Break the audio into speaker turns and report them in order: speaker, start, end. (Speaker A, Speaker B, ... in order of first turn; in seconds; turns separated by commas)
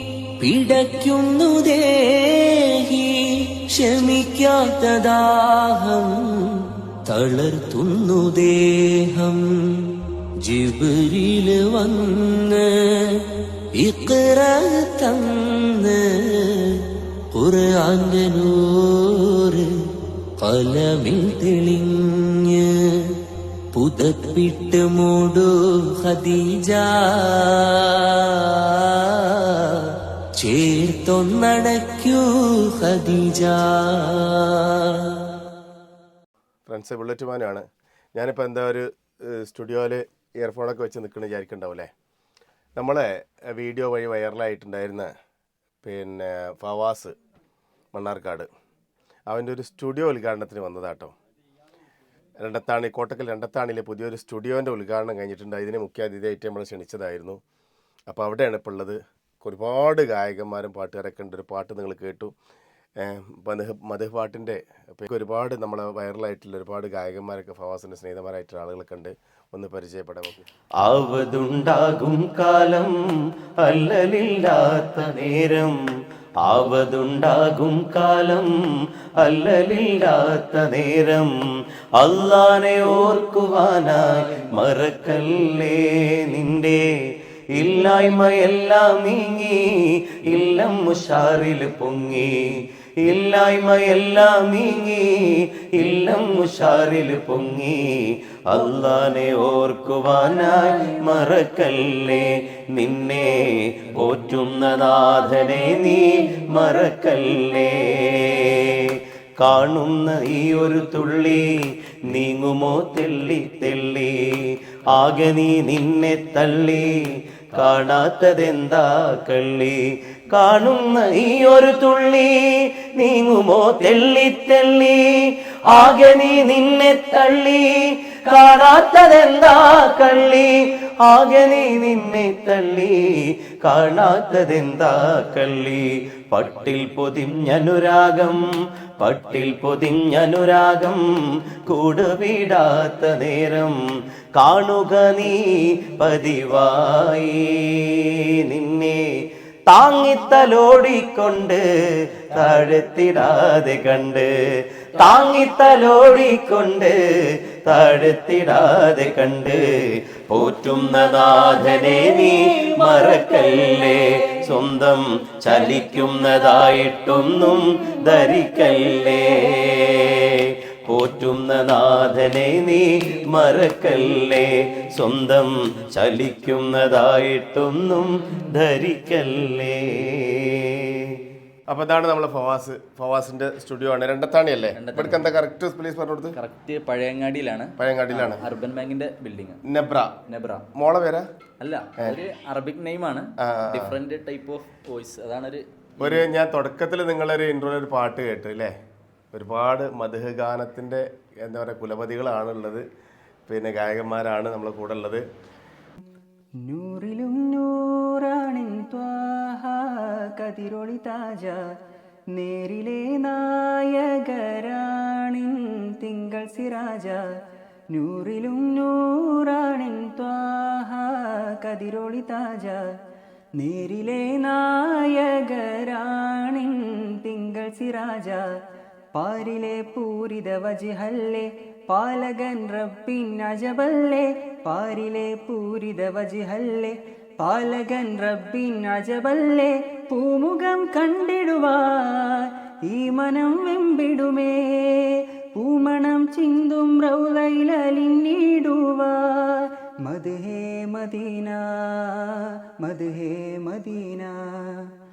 Speaker A: 0.4-19.7, Speaker A: 20.4-23.2, Speaker A: 23.7-35.3, Speaker B: 36.7-41.9, Speaker B: 42.8-45.1, Speaker B: 45.8-47.1, Speaker B: 47.9-48.5, Speaker B: 49.3-51.1, Speaker B: 52.4-57.4, Speaker B: 58.1-62.3, Speaker B: 63.0-70.4, Speaker C: 70.8-72.9, Speaker C: 73.6-75.8, Speaker C: 76.5-78.5, Speaker C: 79.2-81.3, Speaker C: 82.0-86.8, Speaker C: 87.6-89.6, Speaker C: 90.3-92.3, Speaker C: 93.0-111.5, Speaker C: 112.1-117.0, Speaker C: 117.5-119.8, Speaker C: 120.3-130.5, Speaker C: 131.1-133.0, Speaker C: 133.6-138.4, Speaker C: 139.0-141.0, Speaker C: 141.7-143.8, Speaker C: 144.4-145.4, Speaker C: 145.9-149.0, Speaker C: 149.7-151.6, Speaker C: 152.3-154.3, Speaker C: 155.0-157.0, Speaker C: 157.7-159.6, Speaker C: 160.3-170.3, Speaker C: 170.8-180.8, Speaker B: 181.7-186.4, Speaker D: 184.8-185.2, Speaker D: 186.4-189.6, Speaker B: 187.8-188.4, Speaker B: 189.7-190.2, Speaker D: 190.3-190.7, Speaker B: 190.8-191.3, Speaker D: 191.6-196.2, Speaker B: 193.4-194.0, Speaker B: 196.0-198.7, Speaker B: 199.3-202.9, Speaker B: 203.5-205.2, Speaker E: 206.7-211.6, Speaker E: 212.3-217.2, Speaker E: 217.9-222.9, Speaker E: 223.6-228.4, Speaker E: 229.1-254.8